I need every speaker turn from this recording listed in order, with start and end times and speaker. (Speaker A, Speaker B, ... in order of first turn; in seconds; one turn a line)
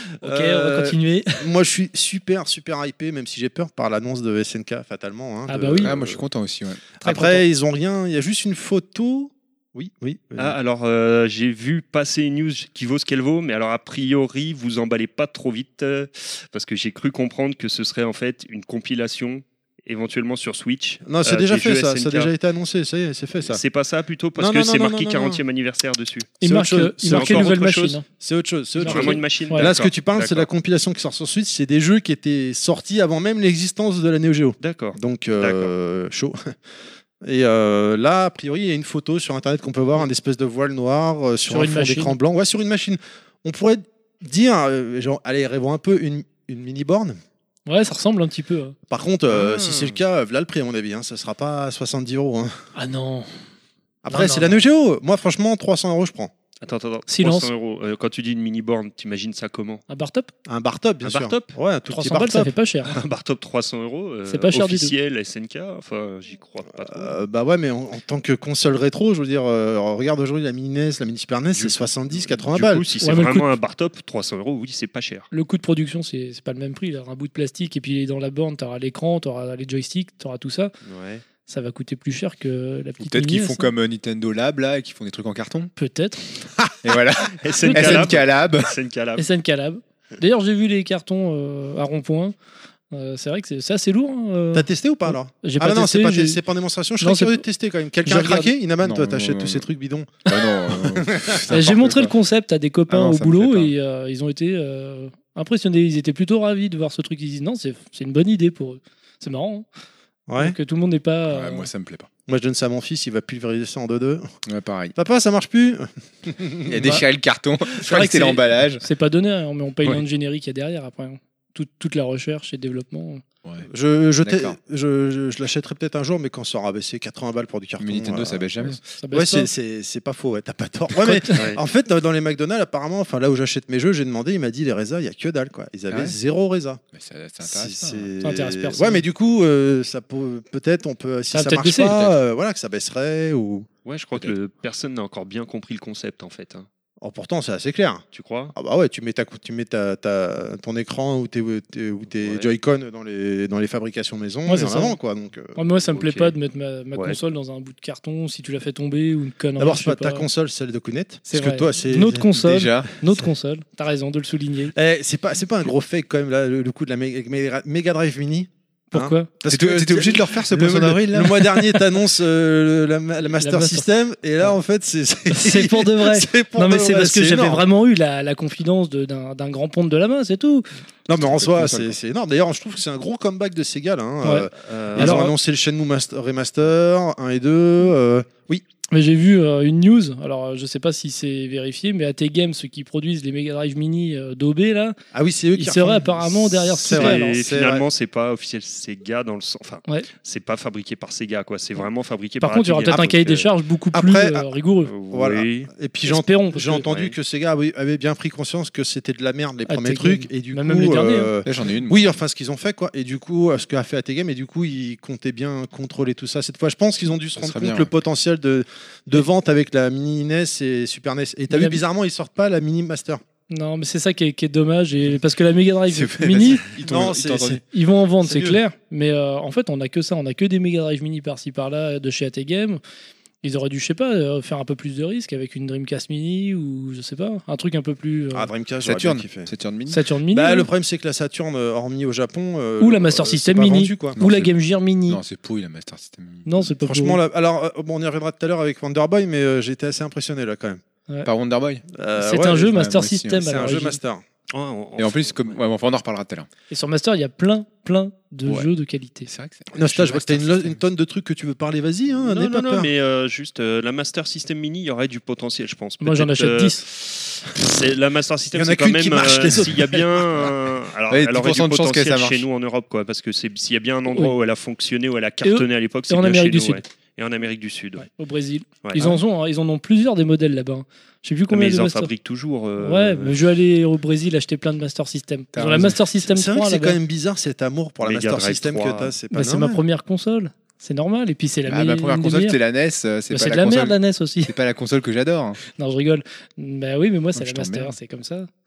Speaker A: 0.2-1.4
Speaker B: 0.2-6.2
Speaker A: 5.5-5.9
Speaker C: 5.8-6.8
Speaker B: 7.0-10.6
Speaker A: 7.0-7.4
Speaker D: 10.4-22.3
Speaker B: 21.0-23.6
Speaker D: 23.4-26.4
Speaker B: 24.4-25.4
Speaker A: 26.4-28.1
Speaker B: 26.4-27.6
Speaker D: 27.1-28.0
Speaker B: 28.2-36.5
Speaker A: 28.8-29.7
Speaker D: 28.8-30.5
Speaker D: 34.6-35.7
Speaker B: 37.2-47.2
Speaker A: 41.5-42.1
Speaker A: 47.7-48.7
Speaker B: 48.9-52.5
Speaker D: 49.3-50.0
Speaker A: 52.8-53.3
Speaker B: 54.0-56.3
Speaker A: 54.1-54.6
Speaker D: 56.6-59.8
Speaker A: 57.1-57.5
Speaker A: 59.9-60.3
Speaker B: 60.5-62.5
Speaker D: 61.0-61.5
Speaker A: 61.9-63.0
Speaker D: 62.9-67.2
Speaker A: 64.3-64.9
Speaker B: 66.8-72.8
Speaker D: 71.5-75.3
Speaker A: 73.0-73.5
Speaker A: 75.3-80.7
Speaker D: 80.8-81.2
Speaker A: 81.5-83.7
Speaker C: 83.0-85.7
Speaker A: 85.8-86.2
Speaker C: 86.8-88.7
Speaker D: 87.4-89.2
Speaker A: 87.6-88.1
Speaker A: 89.2-92.3
Speaker A: 92.9-96.4
Speaker B: 94.5-100.2
Speaker A: 97.0-97.4
Speaker A: 98.0-98.5
Speaker C: 98.8-99.7
Speaker C: 100.3-102.1
Speaker B: 101.1-101.4
Speaker A: 101.5-109.7
Speaker C: 102.9-103.7
Speaker B: 110.3-110.5
Speaker A: 110.4-111.7
Speaker C: 111.3-112.1
Speaker B: 112.3-114.2
Speaker C: 114.5-114.9
Speaker B: 114.9-117.0
Speaker C: 116.7-118.8
Speaker A: 117.8-123.2
Speaker B: 123.7-128.4
Speaker C: 124.2-124.6
Speaker C: 127.8-128.8
Speaker A: 128.6-129.5
Speaker B: 129.1-136.8
Speaker A: 131.0-131.3
Speaker D: 131.3-131.6
Speaker C: 135.9-136.2
Speaker C: 136.9-138.1
Speaker B: 137.4-143.7
Speaker A: 138.2-139.0
Speaker A: 141.3-142.0
Speaker D: 143.8-146.7
Speaker B: 147.0-148.0
Speaker D: 148.1-148.5
Speaker B: 148.5-155.6
Speaker D: 152.2-152.5
Speaker A: 154.5-155.0
Speaker A: 155.6-160.2
Speaker D: 155.9-156.3
Speaker B: 159.6-162.3
Speaker A: 161.3-164.7
Speaker C: 162.4-162.9
Speaker B: 164.7-177.6
Speaker A: 168.9-169.3
Speaker C: 169.5-171.8
Speaker A: 173.4-173.9
Speaker A: 175.3-180.7
Speaker B: 181.1-188.6
Speaker C: 181.2-182.0
Speaker A: 184.2-185.3
Speaker D: 184.6-185.2
Speaker A: 188.9-195.0
Speaker B: 195.1-197.8
Speaker A: 195.6-197.4
Speaker D: 196.8-203.4
Speaker A: 202.4-204.9
Speaker B: 202.9-203.2
Speaker B: 203.9-204.5
Speaker D: 204.8-205.7
Speaker B: 205.1-223.2
Speaker A: 206.0-206.9
Speaker D: 206.9-207.2
Speaker A: 209.7-211.3
Speaker C: 211.4-212.1
Speaker C: 217.4-217.9
Speaker A: 221.5-221.8
Speaker A: 223.5-226.6
Speaker C: 225.9-227.6
Speaker B: 226.8-227.6
Speaker A: 227.7-232.8
Speaker B: 228.2-228.6
Speaker A: 233.4-238.5
Speaker B: 238.3-239.5
Speaker C: 238.8-240.0
Speaker A: 239.9-240.7
Speaker B: 240.3-244.2
Speaker A: 242.8-245.2
Speaker C: 244.2-244.5
Speaker C: 245.1-246.7
Speaker A: 246.4-247.2
Speaker B: 246.8-250.8
Speaker C: 251.2-251.8
Speaker B: 252.0-252.7
Speaker A: 252.2-254.0
Speaker C: 252.5-253.5
Speaker B: 253.4-254.2
Speaker D: 254.5-255.6
Speaker C: 255.0-256.5
Speaker A: 256.7-259.3
Speaker C: 259.2-260.8
Speaker B: 259.7-262.9
Speaker D: 262.2-278.1
Speaker A: 266.0-266.8
Speaker B: 268.5-270.5
Speaker C: 271.1-272.4
Speaker A: 275.4-276.8
Speaker A: 278.0-282.1
Speaker D: 278.8-279.2
Speaker D: 281.5-283.4
Speaker A: 282.8-287.0
Speaker C: 285.5-286.0
Speaker B: 286.3-289.8
Speaker D: 288.0-289.1
Speaker A: 289.3-292.6
Speaker C: 291.6-295.6
Speaker A: 293.3-294.5
Speaker A: 295.8-298.5
Speaker C: 297.3-297.9